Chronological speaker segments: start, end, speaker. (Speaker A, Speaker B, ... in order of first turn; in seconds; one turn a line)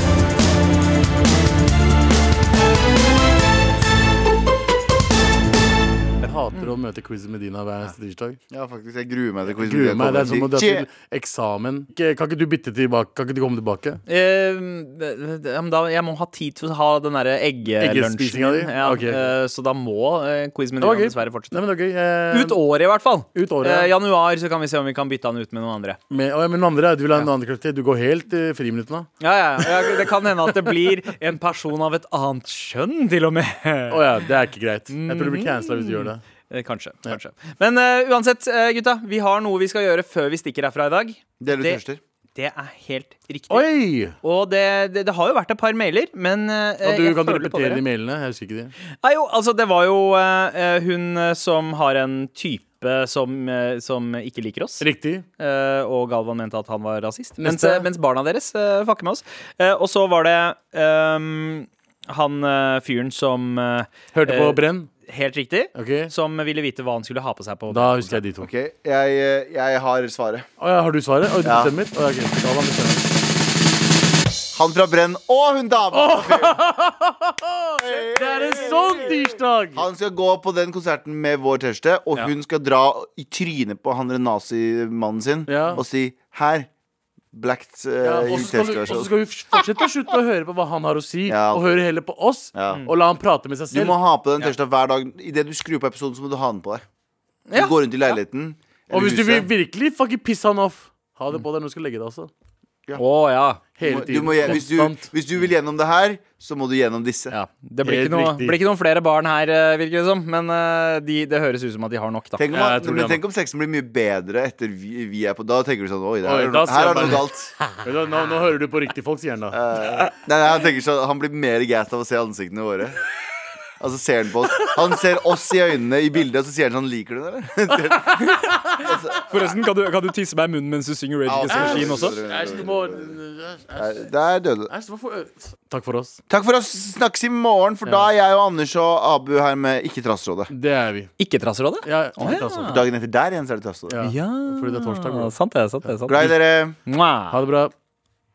Speaker A: 6.2-8.4
Speaker B: 8.5-10.9
Speaker A: 9.6-14.0
Speaker C: 14.1-21.6
Speaker A: 17.8-19.3
Speaker A: 20.8-22.6
Speaker C: 22.3-26.0
Speaker A: 23.3-23.9
Speaker A: 26.1-29.1
Speaker C: 29.2-34.3
Speaker A: 33.9-36.2
Speaker C: 34.9-41.8
Speaker B: 41.4-42.0
Speaker C: 42.4-47.8
Speaker A: 43.5-44.2
Speaker A: 46.8-48.7
Speaker C: 49.0-54.9
Speaker A: 54.8-55.2
Speaker C: 55.4-68.2
Speaker A: 57.4-57.9
Speaker A: 64.1-64.9
Speaker A: 65.8-66.1
Speaker A: 67.7-68.5
Speaker B: 68.4-70.5
Speaker A: 70.6-73.1
Speaker B: 71.4-71.7
Speaker B: 74.5-76.6
Speaker A: 75.9-79.9
Speaker B: 77.8-79.2
Speaker B: 79.7-86.7
Speaker A: 85.5-85.8
Speaker B: 87.3-89.6
Speaker A: 88.0-94.0
Speaker B: 91.3-91.7
Speaker B: 92.5-92.8
Speaker B: 93.7-96.8
Speaker C: 97.5-97.8
Speaker B: 97.5-99.5
Speaker A: 98.9-102.3
Speaker C: 103.0-103.6
Speaker A: 103.8-105.1
Speaker B: 103.8-107.4
Speaker C: 107.3-112.4
Speaker A: 107.8-108.6
Speaker B: 112.4-117.5
Speaker A: 112.5-113.2
Speaker A: 116.2-117.3
Speaker A: 117.8-119.6
Speaker B: 119.5-123.0
Speaker B: 123.8-129.6
Speaker C: 128.2-132.2
Speaker A: 128.4-128.8
Speaker B: 131.3-133.2
Speaker A: 131.5-134.1
Speaker B: 133.8-134.7
Speaker A: 134.7-136.2
Speaker B: 136.3-140.5
Speaker A: 140.5-141.1
Speaker C: 141.2-142.8
Speaker A: 141.8-142.8
Speaker B: 142.2-144.0
Speaker A: 143.9-146.3
Speaker C: 144.0-147.4
Speaker B: 146.1-146.8
Speaker A: 147.3-147.7